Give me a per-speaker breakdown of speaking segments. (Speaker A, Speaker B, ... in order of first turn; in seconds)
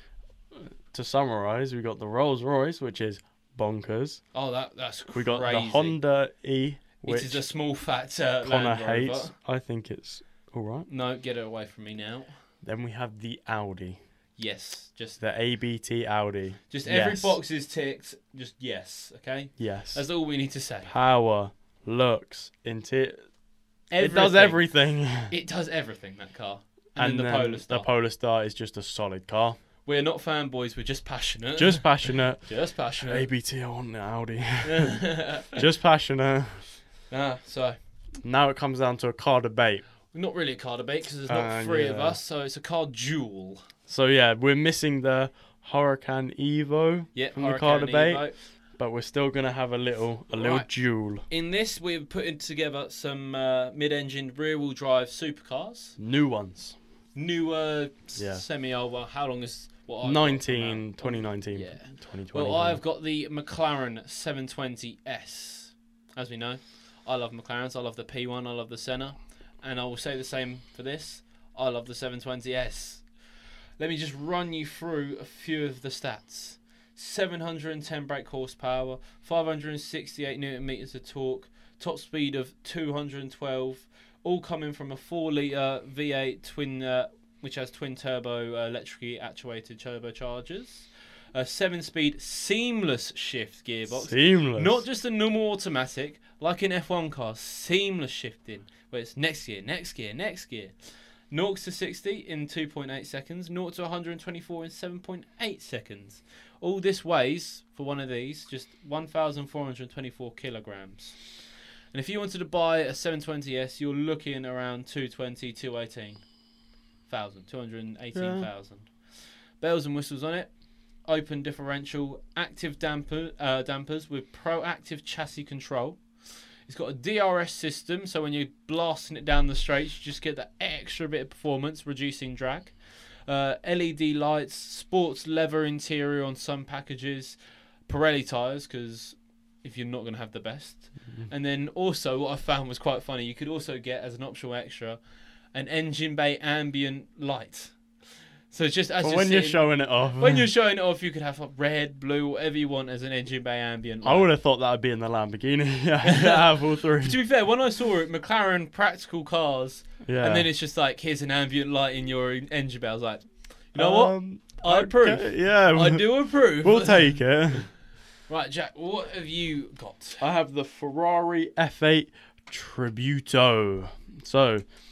Speaker A: 0.5-4.2, 5.1-7.4, 8.4-10.9, 12.6-14.0, 15.2-17.4, 19.6-20.0, 20.9-23.2, 24.0-25.3, 27.0-29.6, 31.6-32.5, 33.0-36.6, 38.2-39.8, 41.3-42.2, 43.9-51.2, 56.0-56.8, 58.1-58.4, 60.0-62.8, 93.9-94.8, 118.1-118.5, 149.0-150.5, 154.0-157.2, 160.0-160.5, 163.8-167.7, 170.2-174.6
Speaker B: 4.3-6.0, 7.0-9.3, 10.9-12.3, 14.4-15.2, 16.7-20.9, 23.9-24.6, 25.3-27.9, 29.8-33.3, 34.6-35.6, 37.1-37.8, 40.1-43.7, 47.1-48.4, 50.3-50.7, 51.3-56.0, 57.1-73.1, 73.8-100.7, 101.3-111.2, 111.9-116.2, 117.1-120.5, 121.0-145.0, 145.5-147.8, 148.5-154.3, 156.0-167.2, 168.3-170.2